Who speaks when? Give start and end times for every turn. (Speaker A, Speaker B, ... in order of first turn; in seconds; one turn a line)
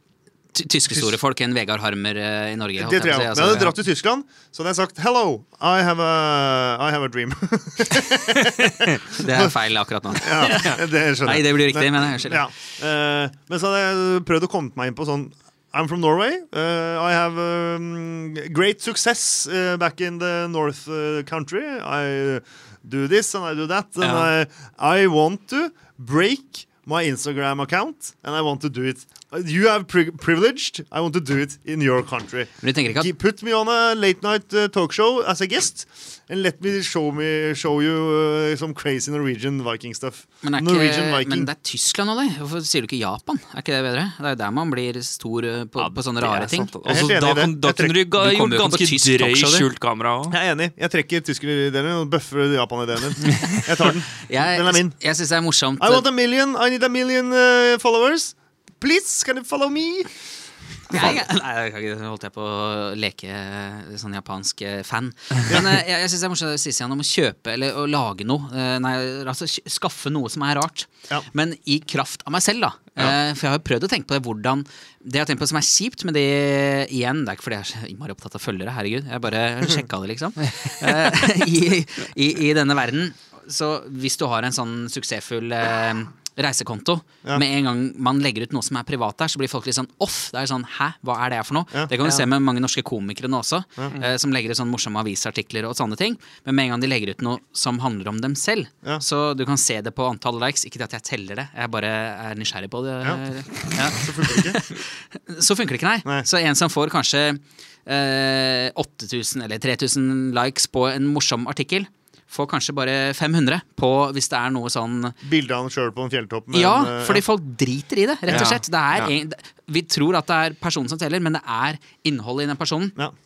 Speaker A: 0.5-3.8
Speaker B: 2.8-9.5
Speaker A: 9.1-12.4
Speaker B: 10.2-41.5
Speaker C: 24.0-24.3
Speaker A: 32.6-33.1
Speaker A: 40.4-46.7
Speaker C: 45.8-50.4
Speaker B: 46.8-48.0
Speaker A: 48.1-49.7
Speaker B: 50.3-55.0
Speaker A: 54.2-56.1
Speaker B: 55.8-60.1
Speaker A: 60.9-115.2
Speaker B: 65.5-65.8
Speaker B: 103.0-104.6
Speaker B: 115.2-117.2
Speaker A: 116.5-123.0
Speaker C: 118.3-119.1